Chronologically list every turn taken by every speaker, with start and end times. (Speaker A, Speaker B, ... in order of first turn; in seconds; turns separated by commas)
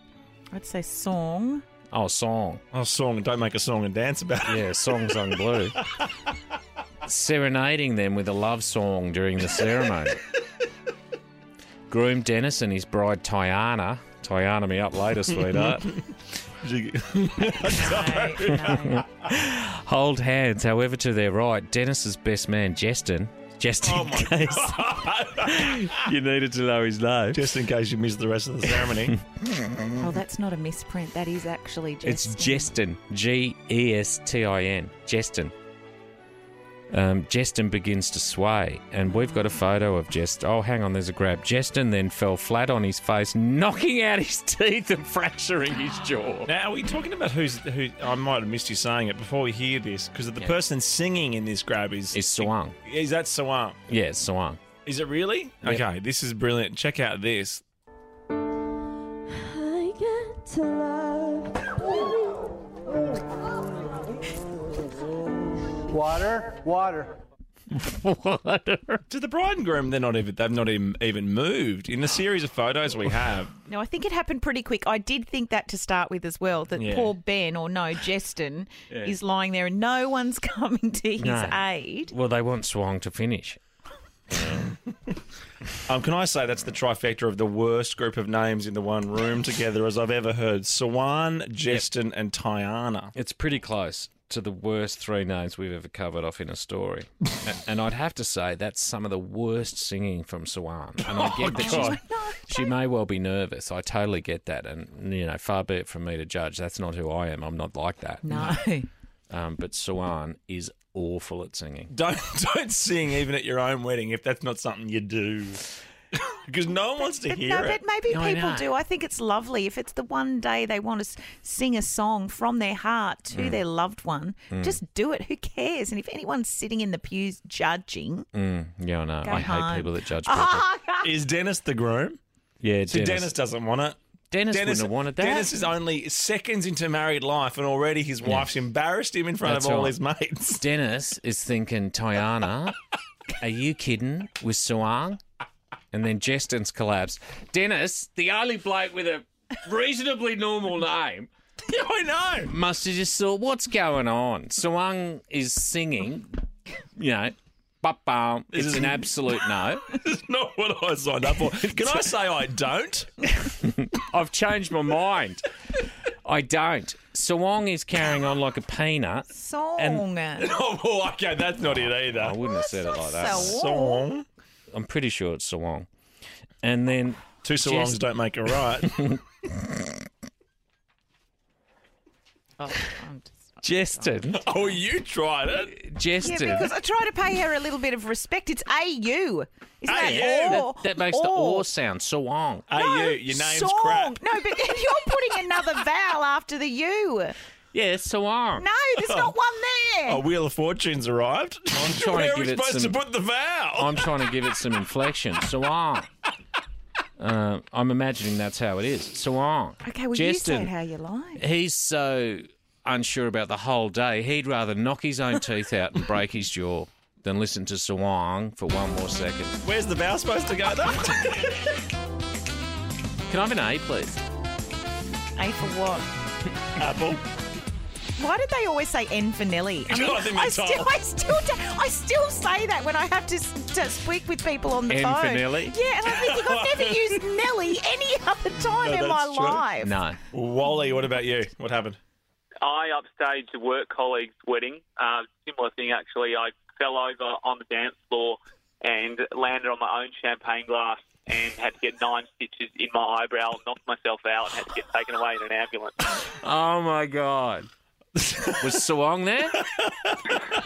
Speaker A: 0.5-1.6, Speaker B: 1.9-2.6, Speaker C: 2.7-5.5, Speaker B: 4.5-5.8, Speaker B: 7.0-10.2, Speaker B: 11.9-16.0, Speaker C: 15.5-18.9, Speaker A: 17.6-19.1, Speaker B: 18.6-27.5, Speaker C: 23.8-26.1, Speaker C: 27.3-29.2, Speaker B: 29.4-29.9, Speaker A: 30.0-32.7, Speaker B: 32.0-35.5, Speaker B: 36.9-46.5, Speaker C: 46.5-53.8, Speaker B: 52.1-52.8, Speaker B: 53.9-54.6, Speaker C: 54.8-57.6, Speaker D: 59.3-62.5, Speaker B: 67.7-69.0, Speaker C: 69.1-73.5, Speaker A: 73.7-82.1, Speaker C: 76.8-77.1, Speaker B: 81.2-83.6, Speaker C: 85.8-93.1, Speaker B: 93.1-108.6, Speaker C: 101.0-102.0, Speaker A: 101.4-102.7, Speaker A: 108.2-108.9, Speaker B: 109.3-111.9, Speaker C: 111.9-117.8, Speaker A: 117.0-128.3, Speaker B: 118.1-118.7, Speaker B: 123.3-123.6, Speaker B: 124.5-124.8, Speaker B: 128.3-130.6, Speaker A: 129.2-131.1, Speaker C: 131.0-132.2, Speaker B: 132.6-133.3, Speaker C: 132.9-134.0, Speaker B: 134.3-135.5, Speaker C: 134.5-140.6, Speaker B: 139.4-139.9, Speaker B: 140.6-142.8, Speaker B: 143.4-145.2, Speaker B: 145.9-151.3, Speaker C: 151.7-152.5, Speaker B: 152.5-156.4, Speaker B: 156.9-159.9, Speaker C: 158.5-159.3, Speaker C: 159.8-163.2, Speaker B: 161.6-162.0, Speaker B: 163.6-165.4, Speaker B: 166.2-170.0, Speaker A: 169.3-170.5, Speaker C: 170.4-172.4, Speaker B: 172.1-173.6, Speaker A: 172.4-174.1, Speaker C: 173.2-174.2, Speaker B: 174.7-175.9, Speaker B: 176.6-178.0, Speaker C: 177.4-179.1, Speaker B: 178.9-179.8, Speaker A: 182.6-184.2, Speaker B: 183.6-184.4, Speaker C: 184.3-185.8, Speaker B: 185.7-186.7, Speaker A: 186.2-191.7, Speaker C: 189.9-190.7, Speaker B: 189.9-192.7, Speaker C: 192.7-194.2, Speaker A: 192.7-197.3, Speaker B: 197.7-198.7, Speaker A: 198.6-200.2, Speaker C: 199.0-199.3, Speaker C: 200.1-204.1, Speaker B: 201.7-203.0, Speaker B: 203.8-206.1, Speaker B: 207.2-210.7, Speaker A: 209.8-211.4, Speaker B: 211.4-219.6, Speaker C: 219.6-221.8, Speaker B: 223.3-224.2, Speaker A: 225.3-226.1, Speaker C: 226.8-227.2, Speaker A: 228.2-239.9, Speaker C: 229.9-230.9, Speaker B: 234.9-235.8, Speaker C: 236.0-237.1, Speaker C: 238.8-239.7, Speaker B: 239.8-240.2, Speaker C: 240.3-242.0, Speaker E: 242.6-256.0, Speaker B: 256.2-257.7, Speaker C: 258.2-258.8, Speaker B: 258.6-259.6, Speaker C: 259.7-260.3